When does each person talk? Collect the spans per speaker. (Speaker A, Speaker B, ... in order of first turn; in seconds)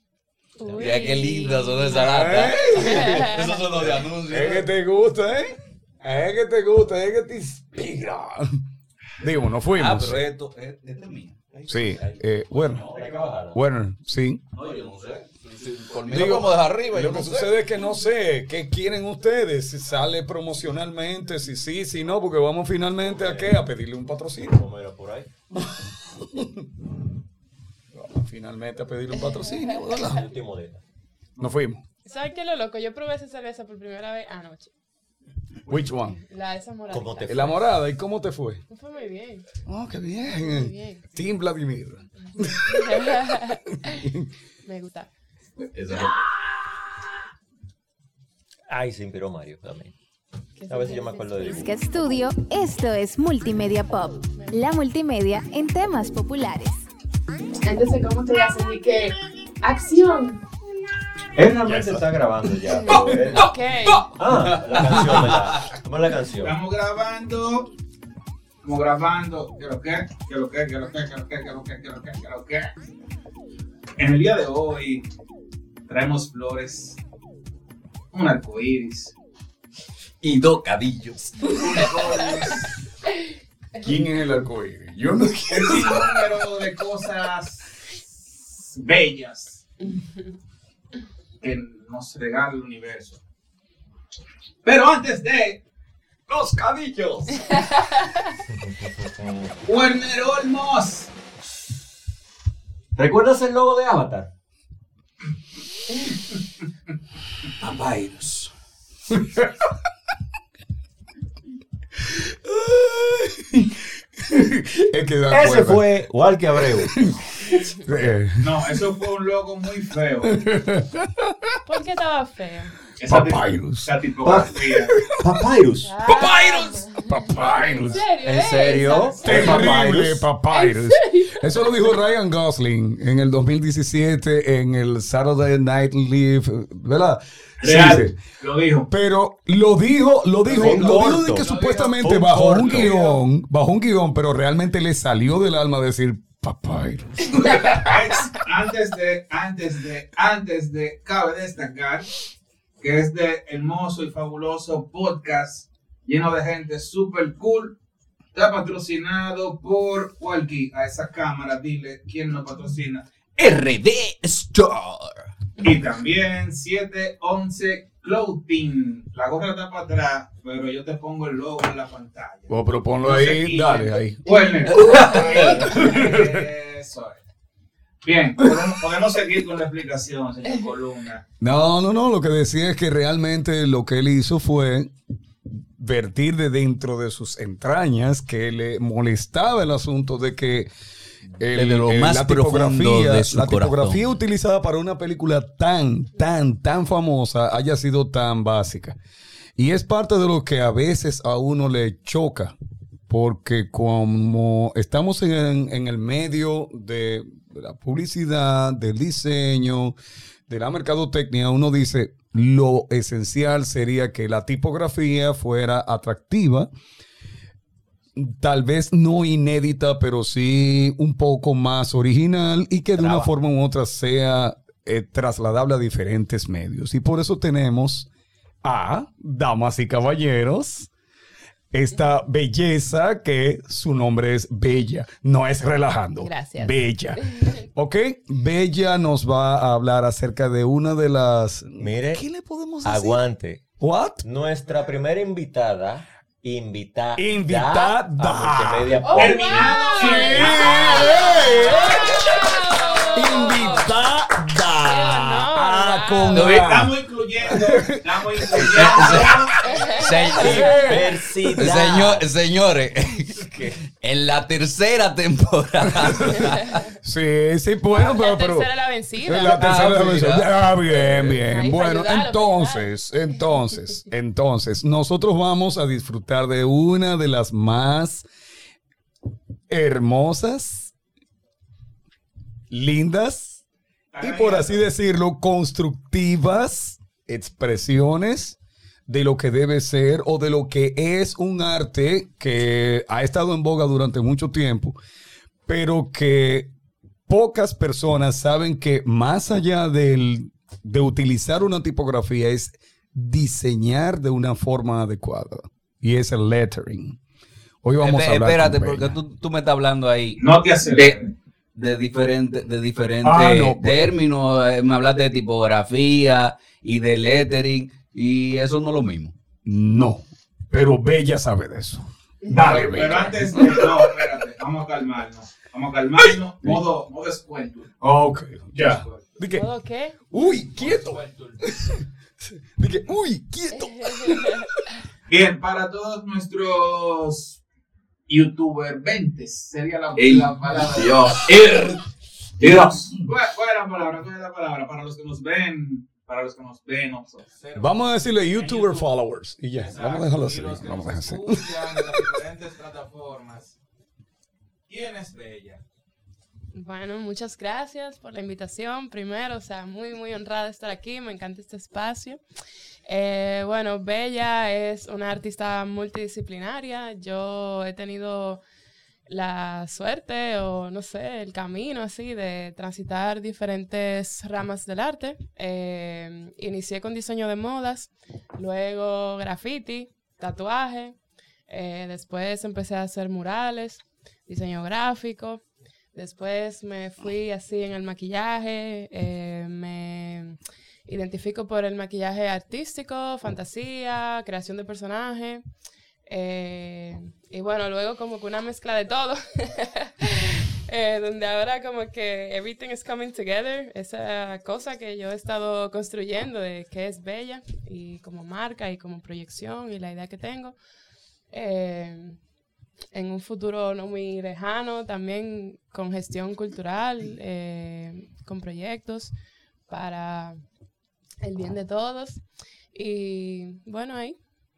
Speaker A: 0.6-3.6, 29.2-30.2, 32.0-34.7, 36.1-37.6, 38.7-39.5, 40.3-41.0, 42.3-44.1, 44.6-45.1, 50.6-51.8, 57.6-60.4, 62.8-64.0, 89.8-90.3, 97.5-98.3, 117.4-118.1, 121.6-122.8, 125.8-129.8, 130.5-131.7, 236.2-237.6, 249.1-253.9, 254.8-256.4, 259.6-261.0, 266.4-266.8, 267.9-269.6, 271.5-272.9, 329.5-330.2, 333.7-334.9, 356.7-362.4, 363.1-368.6, 369.3-381.2, 381.7-385.6, 386.1-395.6, 396.3-410.8, 411.5-412.4, 413.1-419.3, 419.9-420.6, 421.4-422.4, 422.9-424.4
Speaker B: 0.8-4.7, 9.7-11.5, 12.6-13.4, 14.6-17.5, 45.7-46.2, 63.9-65.7, 80.2-82.6, 107.6-108.5, 163.4-165.3, 174.7-175.5, 191.5-194.1, 256.3-256.8, 258.7-260.8, 261.6-266.8, 269.6-271.4, 308.0-319.3, 340.2-342.0, 342.6-343.0
Speaker C: 1.9-3.5, 4.3-8.6, 9.2-10.2, 11.7-12.8, 13.5-14.4, 16.1-24.6, 25.5-26.9, 27.9-30.3, 31.4-31.8, 35.7-36.2, 37.3-38.6, 39.7-44.3, 61.6-62.1, 62.8-63.4, 83.8-86.3, 96.3-97.7, 109.1-109.7, 112.0-115.9, 116.5-119.0, 120.2-121.6, 123.0-125.3, 126.0-128.0, 129.2-138.2, 138.9-148.3, 172.5-174.2, 174.9-176.5, 181.4-184.9, 185.5-190.7, 191.4-199.0, 199.6-202.5, 203.1-209.9, 210.5-216.7, 218.2-228.1, 228.6-230.9, 231.7-243.2, 243.8-244.2, 247.2-256.9, 257.4-259.2, 260.4-261.7, 266.0-268.7, 269.2-278.2, 279.7-280.9, 282.7-283.6, 284.2-288.6, 289.1-295.0, 295.7-296.7, 297.3-307.2, 307.8-309.1, 313.2-314.1, 319.6-324.3, 326.2-326.8, 328.0-329.6, 330.3-334.7, 347.8-352.4
Speaker D: 11.5-12.2, 12.9-13.6, 23.1-23.6, 24.5-25.3, 30.0-30.8, 36.9-37.6, 48.7-49.9, 50.7-51.7, 61.3-63.5, 64.2-66.6, 98.5-99.6, 103.0-104.3, 115.3-117.0, 124.2-125.9, 128.2-130.2, 140.5-143.0, 222.9-223.3, 241.8-242.2, 242.8-243.6, 244.2-249.9, 258.9-259.9, 260.4-262.2, 263.4-263.8
Speaker E: 14.5-15.2, 66.4-67.7, 68.6-72.7, 74.0-75.1, 75.9-77.0, 78.1-79.1, 81.6-82.7, 85.5-88.0, 88.5-89.7, 91.4-93.2, 94.6-95.6, 99.6-101.1, 118.4-120.4, 123.0-125.0, 137.6-138.9, 140.4-141.9, 142.6-143.2, 147.6-152.1, 152.8-157.7, 158.3-163.0, 165.6-177.2, 178.0-181.2, 249.1-251.4, 256.3-259.6, 284.1-284.8, 310.4-311.3, 322.5-327.9, 328.8-329.4, 330.4-331.8, 335.3-337.6, 338.3-341.9, 342.6-349.1, 349.8-353.8, 354.9-355.8
Speaker F: 51.5-56.8